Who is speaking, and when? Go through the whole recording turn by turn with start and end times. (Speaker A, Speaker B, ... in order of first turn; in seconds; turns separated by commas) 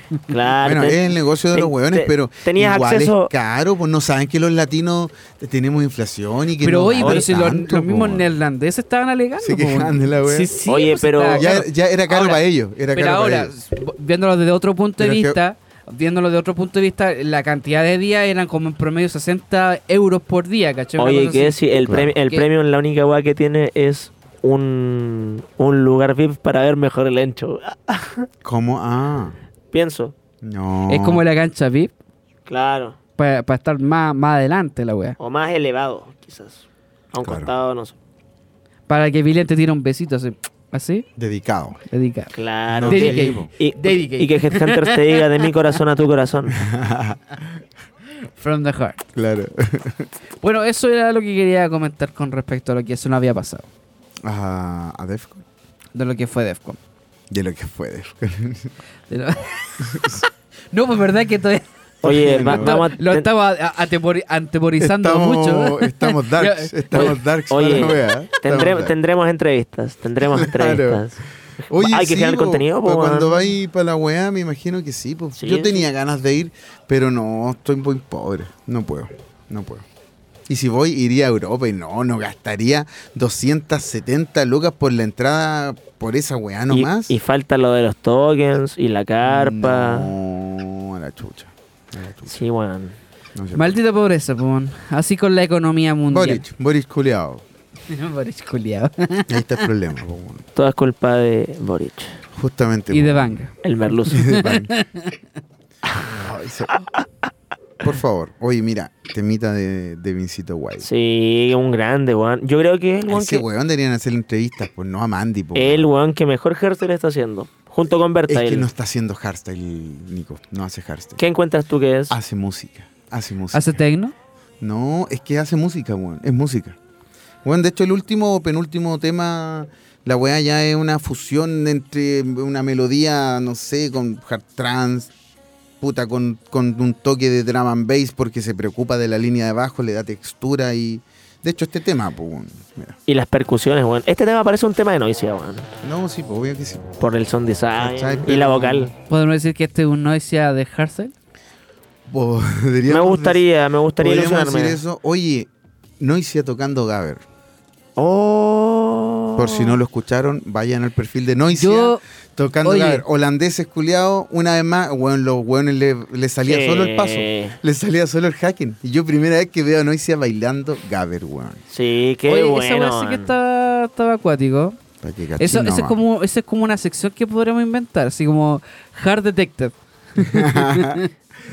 Speaker A: 0.3-3.3, Speaker B: 0.6-8.3, Speaker C: 6.6-12.4, Speaker A: 7.0-7.2, Speaker B: 9.4-10.5, Speaker A: 10.7-11.6, Speaker B: 11.3-13.5, Speaker C: 12.9-22.4, Speaker B: 15.0-15.4, Speaker A: 21.0-28.3, Speaker B: 21.8-22.1, Speaker B: 28.4-29.4, Speaker A: 29.7-30.1, Speaker B: 30.4-31.2, Speaker C: 30.9-31.9, Speaker A: 32.5-33.0, Speaker C: 33.2-35.1, Speaker A: 35.2-38.0, Speaker B: 37.2-37.5, Speaker C: 38.9-41.0, Speaker B: 41.1-41.8, Speaker C: 41.9-42.3, Speaker A: 42.3-46.6, Speaker B: 42.7-43.5, Speaker C: 42.9-45.2, Speaker B: 46.6-47.5, Speaker C: 48.4-49.0, Speaker B: 49.1-50.1, Speaker C: 50.4-53.7, Speaker B: 54.2-55.4, Speaker C: 55.9-56.8, Speaker B: 57.3-58.7, Speaker C: 59.1-67.2, Speaker B: 59.8-60.2, Speaker B: 62.0-62.9, Speaker A: 62.0-63.3, Speaker B: 64.8-68.9, Speaker A: 67.0-71.2, Speaker B: 70.2-71.0, Speaker B: 71.7-79.8, Speaker A: 71.7-73.3, Speaker A: 75.4-75.8, Speaker B: 80.5-87.1, Speaker A: 86.7-90.1, Speaker B: 89.2-92.4, Speaker A: 92.3-93.0, Speaker B: 93.3-93.8, Speaker C: 93.5-96.4, Speaker B: 96.1-97.4, Speaker C: 97.9-99.6, Speaker B: 99.3-100.5, Speaker A: 100.5-102.1, Speaker B: 102.3-103.4, Speaker C: 102.9-103.5, Speaker A: 103.6-104.2, Speaker C: 104.1-105.2, Speaker B: 104.1-104.7, Speaker B: 106.0-106.8, Speaker B: 107.8-110.9, Speaker A: 110.8-113.4, Speaker B: 113.1-115.9, Speaker A: 115.5-118.7, Speaker B: 118.3-121.2, Speaker A: 121.2-122.2, Speaker B: 122.1-123.8, Speaker C: 123.5-124.1, Speaker B: 124.6-126.8, Speaker B: 127.4-135.1, Speaker B: 135.8-142.9, Speaker A: 143.1-145.7, Speaker B: 145.8-147.0, Speaker A: 147.0-148.9, Speaker B: 147.8-148.9, Speaker C: 149.1-151.1, Speaker B: 152.1-153.4, Speaker A: 152.9-154.8, Speaker B: 154.0-157.2, Speaker A: 158.0-159.8, Speaker B: 159.3-171.6, Speaker C: 161.5-162.0, Speaker C: 162.6-163.0, Speaker A: 166.4-167.6, Speaker A: 171.7-173.3, Speaker C: 172.3-174.8, Speaker B: 175.0-176.0, Speaker C: 175.4-181.1, Speaker B: 180.2-181.0